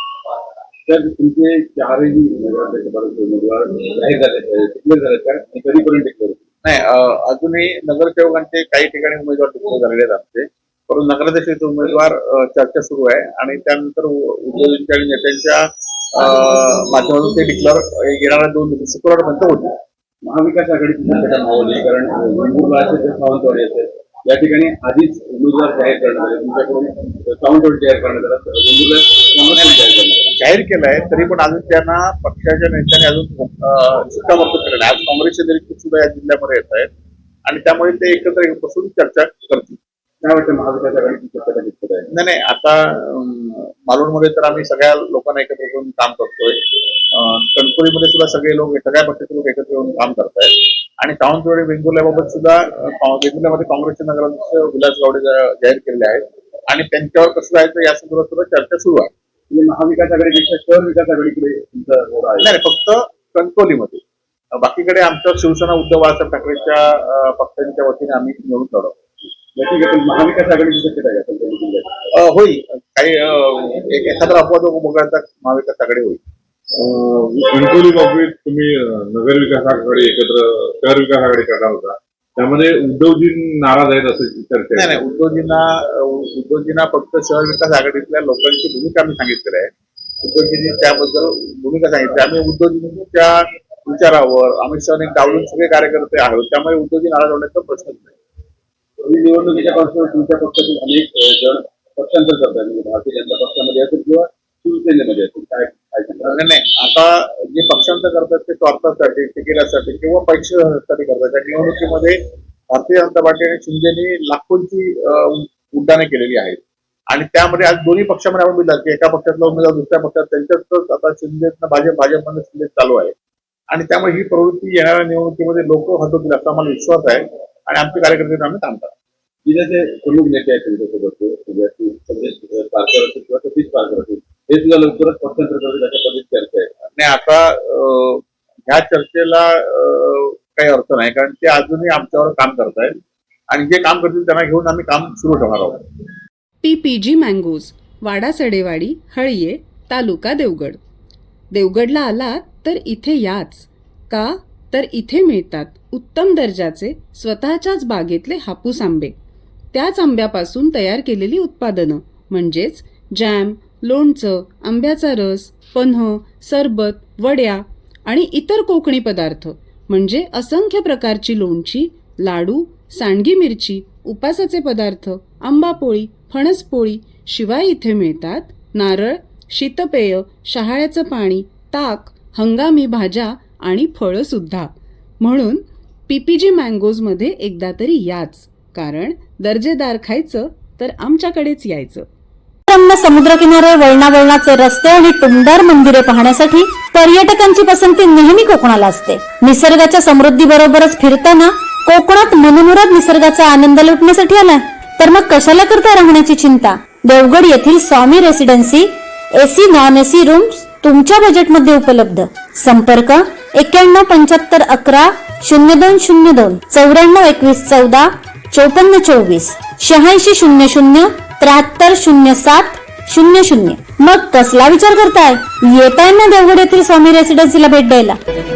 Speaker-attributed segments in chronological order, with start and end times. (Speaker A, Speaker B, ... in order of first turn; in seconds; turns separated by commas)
Speaker A: 0.9-6.4, Speaker B: 6.6-15.6, Speaker B: 16.1-19.8, Speaker A: 20.2-30.3, Speaker B: 30.3-36.9, Speaker B: 37.5-39.8, Speaker A: 40.2-42.1, Speaker B: 42.1-46.6, Speaker B: 47.1-59.1, Speaker A: 59.5-62.6, Speaker B: 62.4-64.0, Speaker B: 64.5-69.0, Speaker A: 69.5-71.9, Speaker B: 72.2-76.2, Speaker C: 76.8-85.0, Speaker B: 84.7-89.7, Speaker B: 90.2-98.1, Speaker A: 99.0-106.4, Speaker B: 106.3-112.2, Speaker B: 112.7-123.1, Speaker B: 123.7-128.9, Speaker A: 129.4-136.7, Speaker B: 136.9-142.9, Speaker B: 143.5-145.8, Speaker D: 146.6-150.8, Speaker D: 151.5-159.2, Speaker D: 159.7-192.1, Speaker E: 192.7-228.2